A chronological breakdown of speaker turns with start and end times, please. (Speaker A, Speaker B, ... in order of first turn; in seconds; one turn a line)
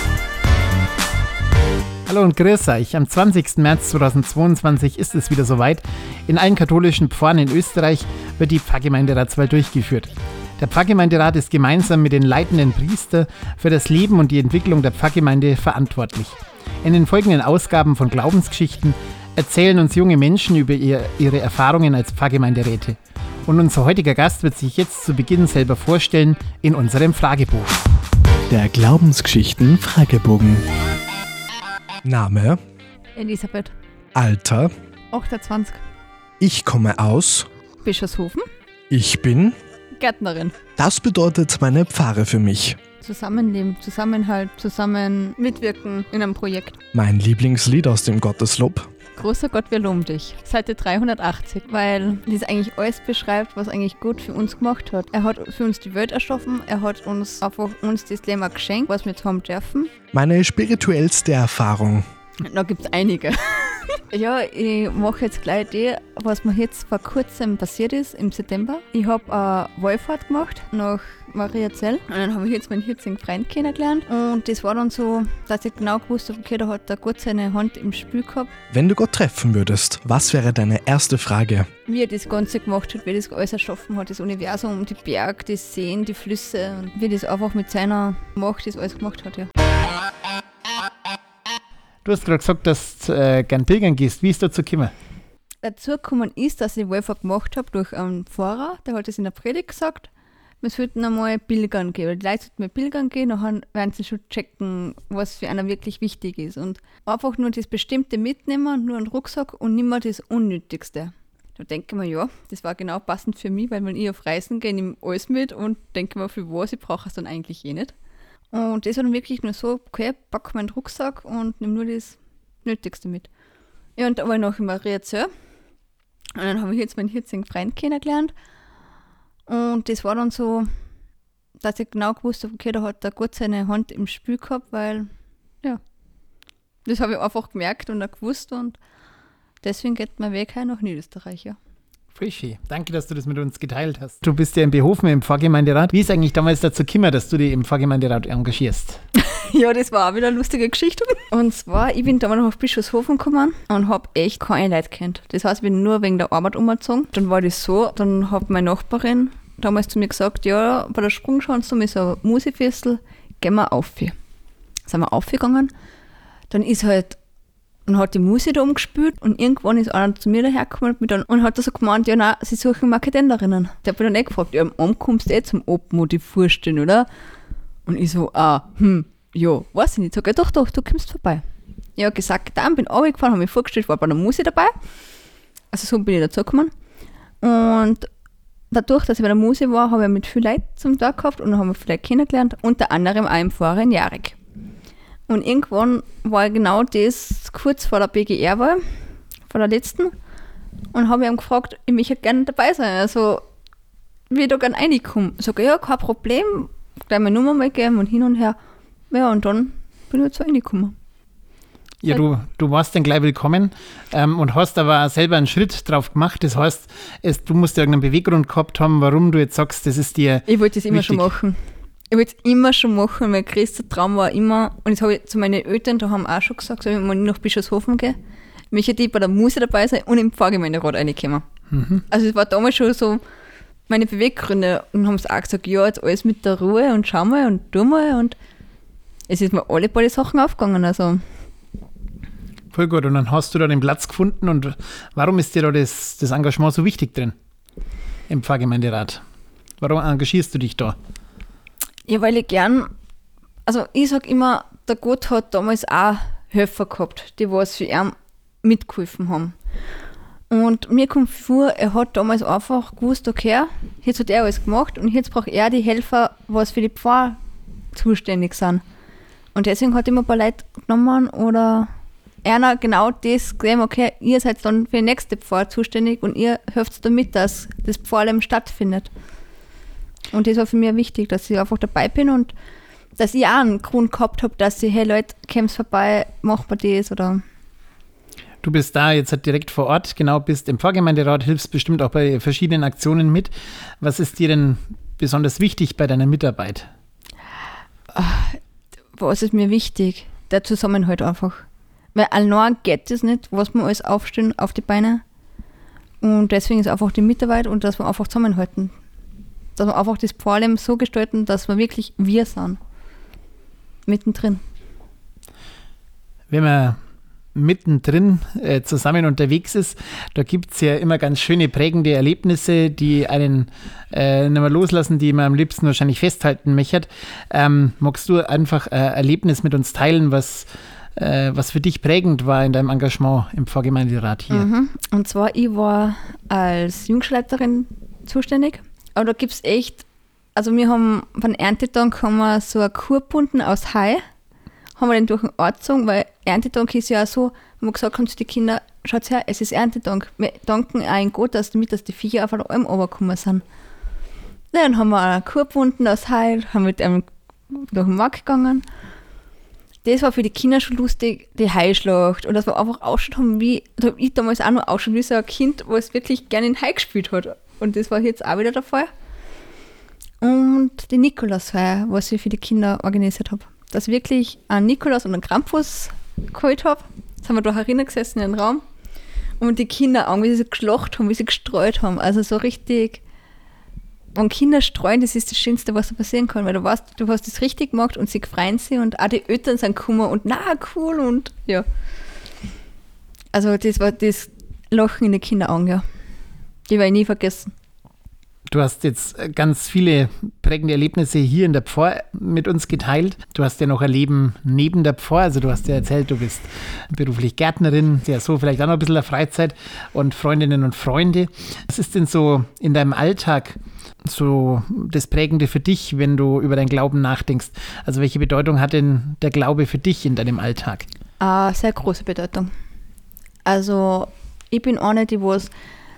Speaker A: 2.0-27.8
Speaker B: 28.5-30.6
Speaker B: 32.0-32.6
Speaker C: 33.2-33.7
Speaker B: 34.1-34.7
Speaker C: 35.1-35.8
Speaker B: 36.4-37.5
Speaker C: 37.8-38.5
Speaker B: 38.9-39.5
Speaker C: 40.0-40.6
Speaker B: 40.8-42.8
Speaker C: 43.0-46.8
Speaker B: 46.9-48.9
Speaker C: 49.2-59.9
Speaker B: 60.1-62.0
Speaker C: 62.4-78.5
Speaker B: 78.7-81.7
Speaker C: 81.9-89.5
Speaker A: 92.0-94.9
Speaker C: 95.6-100.1
Speaker C: 100.6-117.9
Speaker C: 118.5-123.3
Speaker C: 124.0-125.3
Speaker C: 126.3-128.3
Speaker C: 129.5-130.7
Speaker C: 131.6-135.1
Speaker C: 136.9-138.8
Speaker C: 139.6-141.6
Speaker A: 142.1-149.0
Speaker C: 149.2-164.1
Speaker C: 164.9-165.7
Speaker C: 166.5-167.2
Speaker C: 167.9-177.1
Speaker C: 177.9-181.4
Speaker C: 182.0-184.7
Speaker C: 185.7-186.7
Speaker C: 187.4-188.1
Speaker C: 188.7-194.4
Speaker C: 195.3-198.8
Speaker C: 199.5-200.1
Speaker C: 200.9-203.5
Speaker C: 204.3-208.6
Speaker C: 209.1-210.9
Speaker A: 212.0-221.3
Speaker C: 220.5-221.6
Speaker C: 222.1-228.2
Speaker C: 228.7-231.4
Speaker A: 231.7-232.0
Speaker C: 232.1-233.2
Speaker C: 233.9-238.4
Speaker C: 239.3-241.2
Speaker A: 242.7-247.3
Speaker A: 248.3-249.2
Speaker A: 249.8-250.9
Speaker C: 252.1-252.9
Speaker C: 253.7-259.5
Speaker C: 260.5-267.4
Speaker C: 267.9-268.8
Speaker C: 269.5-271.9
Speaker C: 272.4-279.1
Speaker C: 280.3-282.5
Speaker C: 283.2-287.4
Speaker A: 288.6-296.9
Speaker C: 298.1-298.6
Speaker C: 299.1-305.2
Speaker C: 306.2-308.9
Speaker C: 309.8-312.8
Speaker C: 314.1-314.6
Speaker A: 316.5-317.0
Speaker A: 317.5-334.7
Speaker C: 334.5-344.2
Speaker C: 345.0-353.6
Speaker C: 354.7-358.8
Speaker C: 360.0-369.1
Speaker C: 370.4-378.8
Speaker C: 379.6-383.2
Speaker C: 384.3-391.8
Speaker C: 393.5-396.0
Speaker C: 396.9-397.7
Speaker A: 398.7-413.8
Speaker A: 414.3-421.0
Speaker C: 421.4-422.7
Speaker C: 423.6-425.7